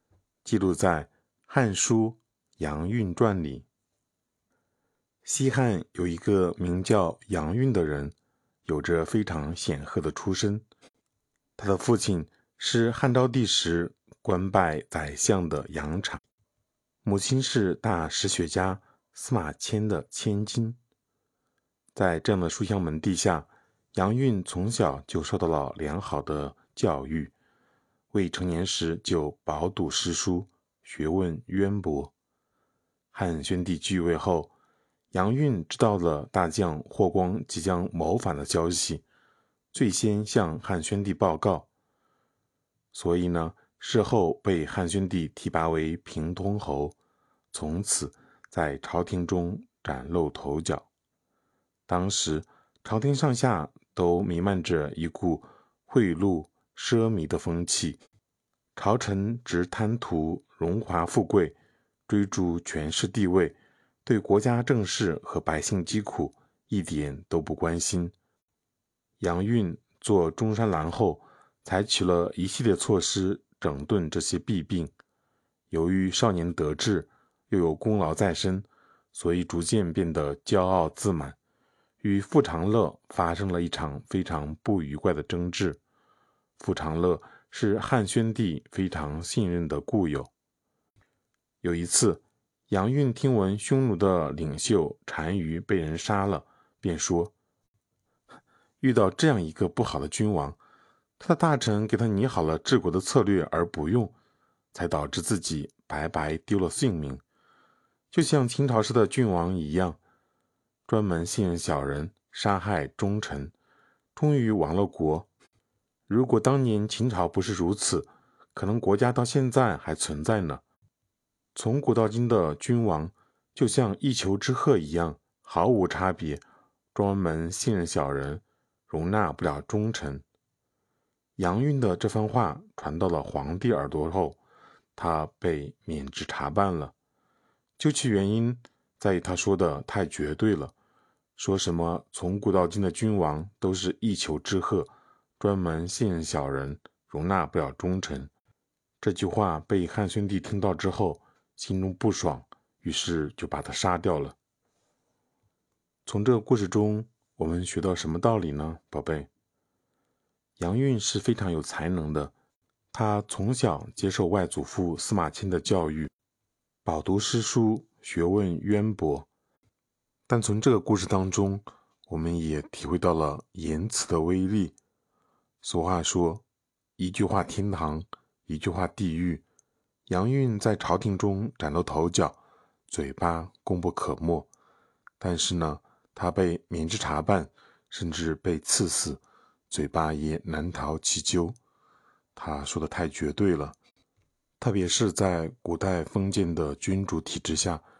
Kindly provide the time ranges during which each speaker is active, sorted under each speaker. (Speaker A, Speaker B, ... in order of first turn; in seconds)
Speaker A: 0.4-3.6, 5.2-8.1, 8.7-10.6, 11.6-16.2, 17.0-20.8, 21.9-27.3, 28.1-32.1, 33.1-34.5, 35.1-39.0, 39.7-41.7, 42.9-46.9, 47.5-50.9, 51.9-58.0, 58.8-61.5, 62.1-68.1, 69.2-74.9, 75.7-81.4, 82.0-85.8, 86.6-90.3, 91.6-97.3, 98.8-100.6, 101.2-104.1, 104.7-107.2, 108.1-110.0, 110.9-113.5, 114.2-115.3, 116.1-120.6, 121.5-130.2, 131.4-134.4, 134.9-136.9, 137.8-140.7, 141.4-148.3, 149.0-154.3, 156.1-159.3, 160.6-162.3, 162.9-166.1, 166.8-169.3, 170.3-174.7, 175.6-176.4, 177.0-179.4, 180.1-182.4, 182.9-184.5, 185.2-191.6, 192.3-193.8, 194.6-197.8